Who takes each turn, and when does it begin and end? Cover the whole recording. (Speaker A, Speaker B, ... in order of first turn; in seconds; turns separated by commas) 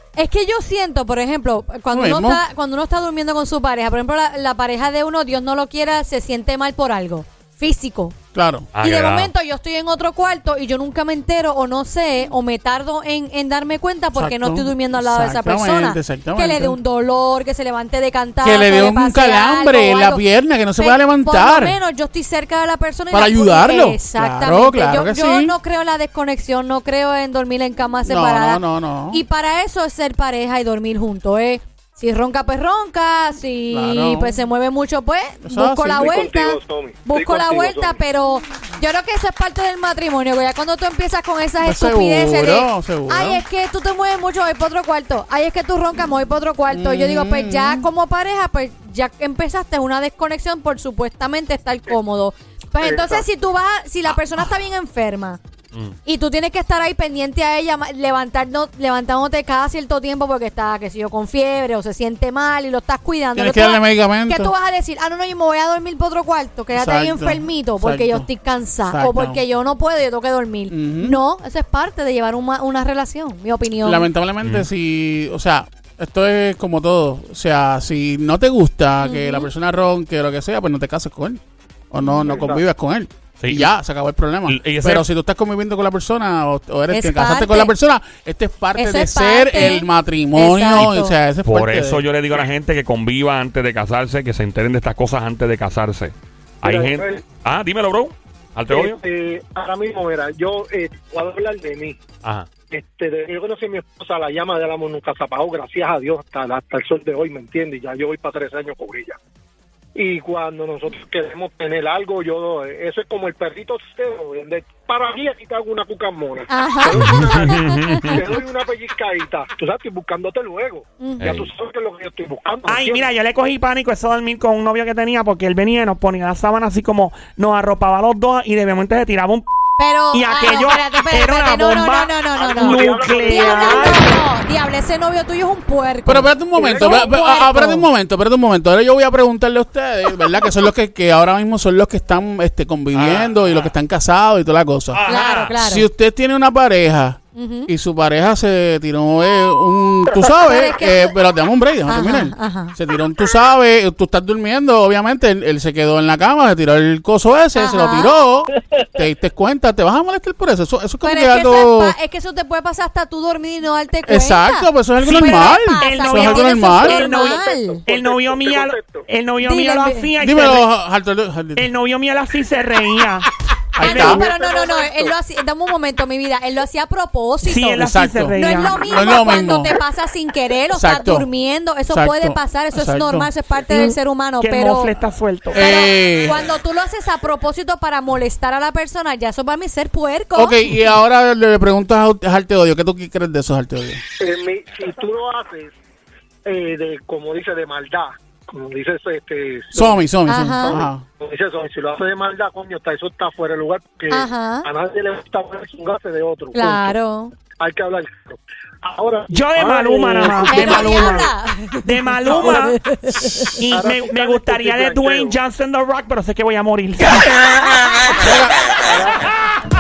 Speaker A: 0.2-8.2, Speaker B: 1.9-2.4, Speaker B: 8.3-8.7, Speaker C: 8.8-9.3, Speaker A: 8.8-20.2, Speaker B: 14.2-16.8, Speaker B: 18.4-21.8, Speaker A: 20.8-55.4, Speaker B: 23.1-25.6, Speaker B: 28.1-29.2, Speaker B: 33.7-34.3, Speaker B: 35.4-36.2, Speaker D: 36.0-38.0, Speaker B: 41.6-43.4, Speaker B: 46.7-47.9, Speaker D: 52.8-53.2, Speaker A: 56.1-74.1, Speaker B: 63.4-64.5, Speaker B: 66.7-68.3, Speaker B: 68.9-69.4, Speaker B: 70.7-71.2, Speaker B: 73.8-92.0, Speaker C: 74.4-74.7, Speaker A: 79.0-79.5, Speaker A: 82.0-82.3, Speaker D: 82.2-82.6, Speaker C: 83.4-83.7, Speaker C: 84.5-85.1, Speaker A: 86.9-87.7, Speaker A: 88.8-91.2, Speaker C: 91.5-99.0, Speaker D: 96.6-97.2, Speaker D: 98.7-102.0, Speaker D: 102.7-109.2, Speaker D: 110.0-123.1, Speaker A: 116.5-118.1, Speaker C: 117.0-118.2, Speaker A: 121.0-121.3, Speaker C: 121.2-121.5, Speaker E: 122.7-129.5, Speaker A: 129.8-137.9, Speaker E: 130.1-134.1, Speaker D: 132.4-134.1, Speaker B: 136.1-145.0, Speaker D: 136.6-137.2, Speaker C: 142.9-143.7, Speaker C: 144.9-145.6, Speaker A: 145.1-145.9, Speaker B: 145.6-162.0, Speaker A: 147.3-147.7, Speaker A: 150.2-151.2, Speaker A: 151.9-152.8, Speaker A: 157.6-158.2, Speaker A: 161.0-167.8, Speaker B: 164.1-167.1, Speaker E: 165.2-170.7, Speaker D: 167.2-169.1, Speaker A: 169.4-170.1, Speaker B: 170.2-171.7, Speaker E: 171.6-173.2, Speaker B: 173.7-174.2, Speaker A: 173.8-177.8, Speaker D: 173.8-175.2, Speaker E: 177.4-178.8, Speaker B: 177.8-179.8, Speaker A: 178.4-184.9, Speaker B: 180.7-181.3, Speaker B: 181.9-183.3, Speaker E: 183.7-185.6, Speaker B: 185.5-186.4, Speaker A: 185.6-190.7, Speaker B: 190.3-194.0, Speaker D: 194.2-195.8, Speaker D: 196.5-200.0, Speaker B: 199.7-201.0, Speaker A: 200.3-200.8, Speaker D: 200.6-207.0, Speaker A: 204.1-204.7, Speaker A: 206.5-207.3, Speaker D: 207.6-211.2, Speaker E: 209.3-211.3, Speaker A: 210.5-213.6, Speaker E: 211.8-212.8, Speaker D: 212.3-212.5, Speaker E: 213.6-217.4, Speaker D: 213.7-215.3, Speaker D: 218.1-219.3, Speaker B: 218.2-218.5